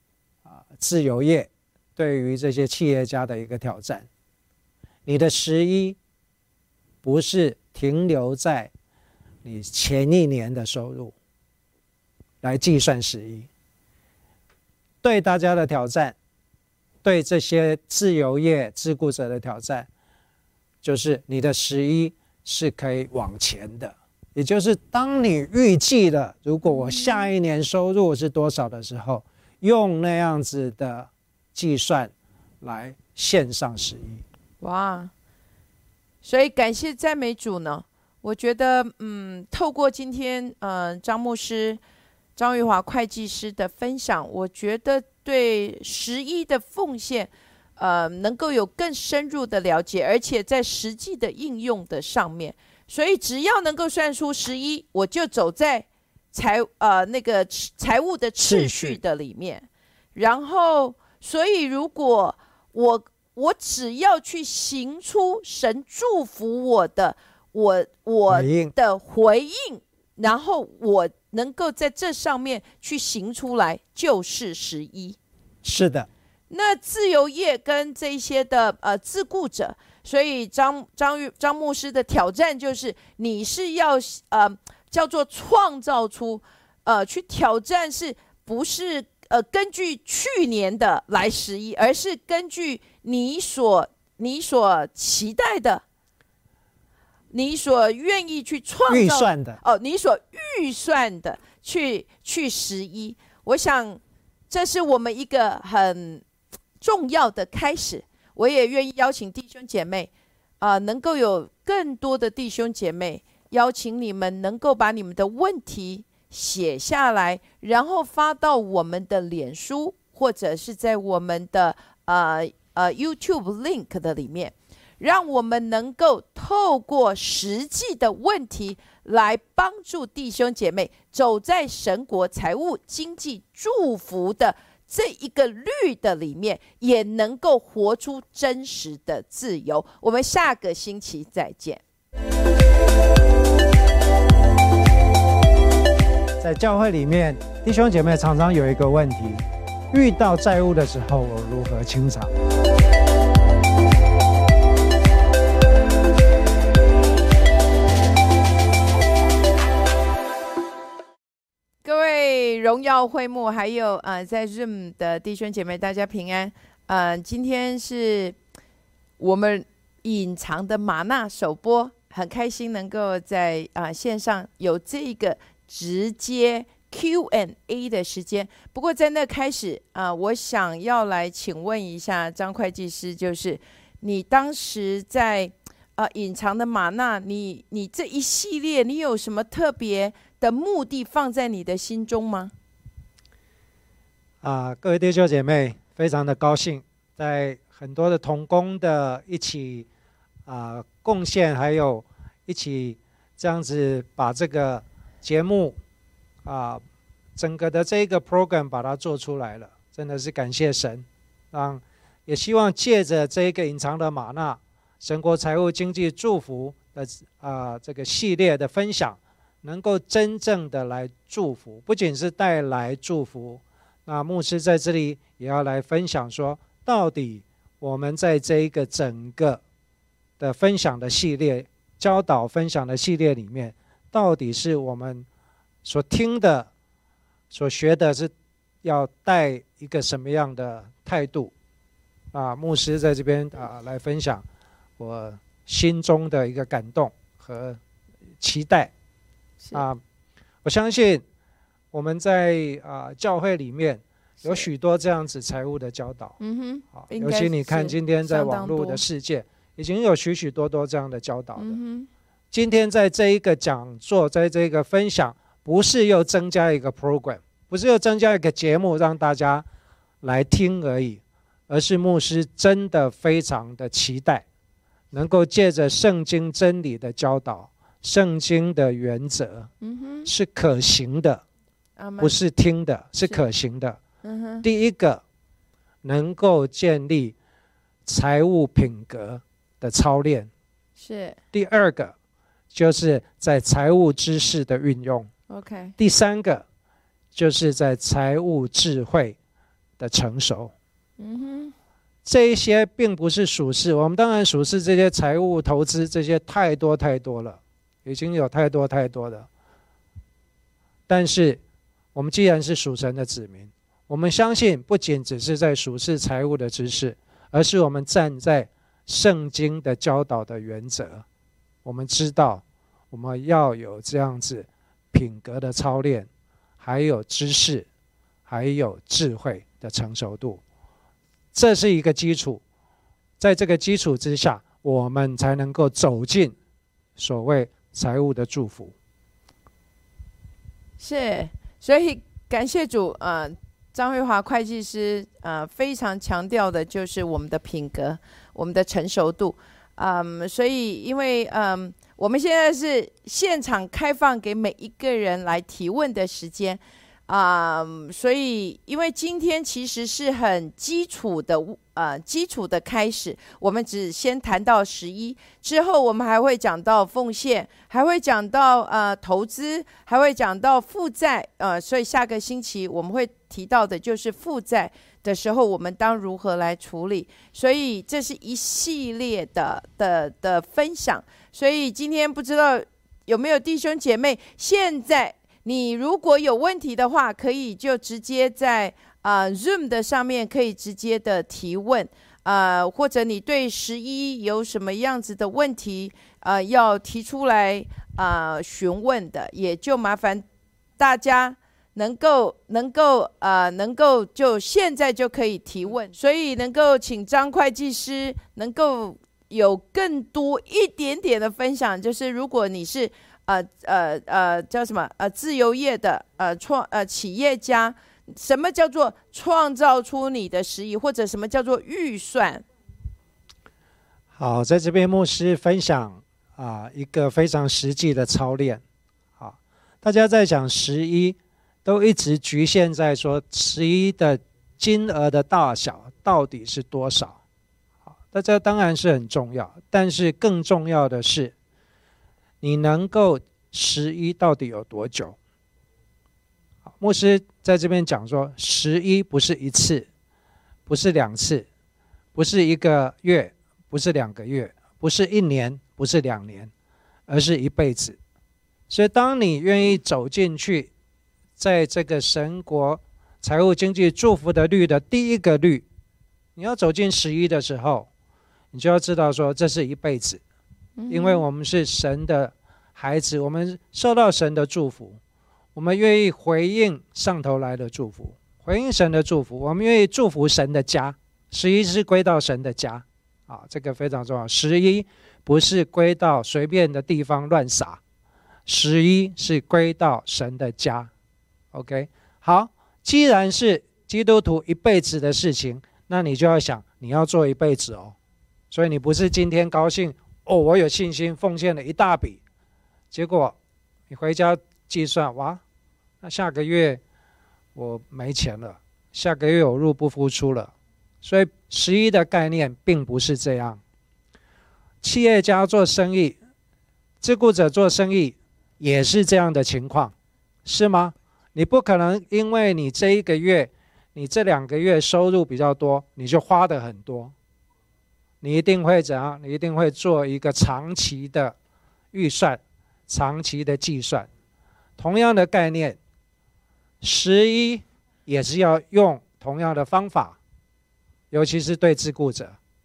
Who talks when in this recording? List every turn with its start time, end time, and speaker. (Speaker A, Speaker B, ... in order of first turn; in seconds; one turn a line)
Speaker A: 0.5-4.1
Speaker A: 5.1-6.0
Speaker A: 7.0-8.7
Speaker A: 9.4-11.1
Speaker A: 12.4-13.5
Speaker A: 15.0-16.1
Speaker A: 17.0-19.9
Speaker A: 20.8-32.1
Speaker B: 26.7-27.3
Speaker A: 32.6-34.2
Speaker B: 34.6-35.1
Speaker B: 36.2-41.8
Speaker B: 42.4-75.2
Speaker A: 58.4-59.0
Speaker A: 68.3-68.7
Speaker A: 75.6-76.1
Speaker B: 76.5-95.8
Speaker B: 97.3-106.2
Speaker A: 98.9-99.6
Speaker B: 106.8-110.1
Speaker B: 110.6-141.8
Speaker A: 146.4-152.3
Speaker B: 161.8-168.4
Speaker B: 169.2-192.5
Speaker A: 194.4-199.9
Speaker A: 200.5-205.8
Speaker A: 206.4-206.8
Speaker A: 207.4-229.6
Speaker A: 230.4-235.3
Speaker A: 235.8-236.7
Speaker A: 237.5-238.3
Speaker A: 238.8-241.5
Speaker A: 242.3-244.4
Speaker A: 245.0-247.8
Speaker A: 248.4-248.9
Speaker B: 249.6-249.9
Speaker A: 249.7-250.0
Speaker A: 250.6-251.2
Speaker A: 251.9-256.4
Speaker B: 254.4-254.7
Speaker B: 256.4-259.0
Speaker A: 256.9-261.8
Speaker B: 261.6-262.1
Speaker A: 262.5-269.6
Speaker A: 270.2-274.4
Speaker A: 275.1-279.7
Speaker B: 279.8-280.3
Speaker A: 280.3-281.4
Speaker B: 282.0-282.4
Speaker A: 282.2-284.0
Speaker B: 284.2-284.7
Speaker A: 284.6-285.2
Speaker A: 286.0-287.4
Speaker A: 288.1-290.5
Speaker B: 291.0-291.4
Speaker A: 291.5-292.1
Speaker A: 292.7-295.3
Speaker B: 295.5-295.9
Speaker A: 296.0-296.6
Speaker A: 297.3-299.4
Speaker A: 300.0-300.7
Speaker B: 301.2-301.7
Speaker A: 302.2-309.5
Speaker A: 311.1-311.6
Speaker A: 312.1-321.2
Speaker A: 321.9-326.3
Speaker A: 326.8-327.9
Speaker A: 328.5-330.6
Speaker A: 331.5-332.6
Speaker A: 333.4-336.6
Speaker A: 337.2-338.9
Speaker B: 341.0-400.4
Speaker B: 401.0-422.6
Speaker A: 424.3-428.8
Speaker A: 429.4-437.4
Speaker A: 438.3-441.5
Speaker A: 442.6-445.4
Speaker A: 447.0-450.1
Speaker A: 450.9-451.6
Speaker A: 452.4-456.7
Speaker A: 457.3-458.2
Speaker A: 458.9-460.9
Speaker A: 461.6-465.9
Speaker A: 466.6-468.1
Speaker A: 468.7-470.4
Speaker B: 471.0-471.4
Speaker A: 471.1-475.2
Speaker A: 475.8-488.0
Speaker A: 488.6-491.1
Speaker A: 491.7-498.1
Speaker A: 498.7-502.4
Speaker A: 503.1-503.6
Speaker A: 504.1-505.6
Speaker A: 506.2-507.0
Speaker A: 507.8-513.8
Speaker A: 515.0-516.4
Speaker A: 517.2-520.1
Speaker A: 520.6-527.3
Speaker A: 528.4-531.5
Speaker A: 532.1-534.3
Speaker A: 535.0-536.0
Speaker A: 537.0-540.4
Speaker A: 541.3-542.6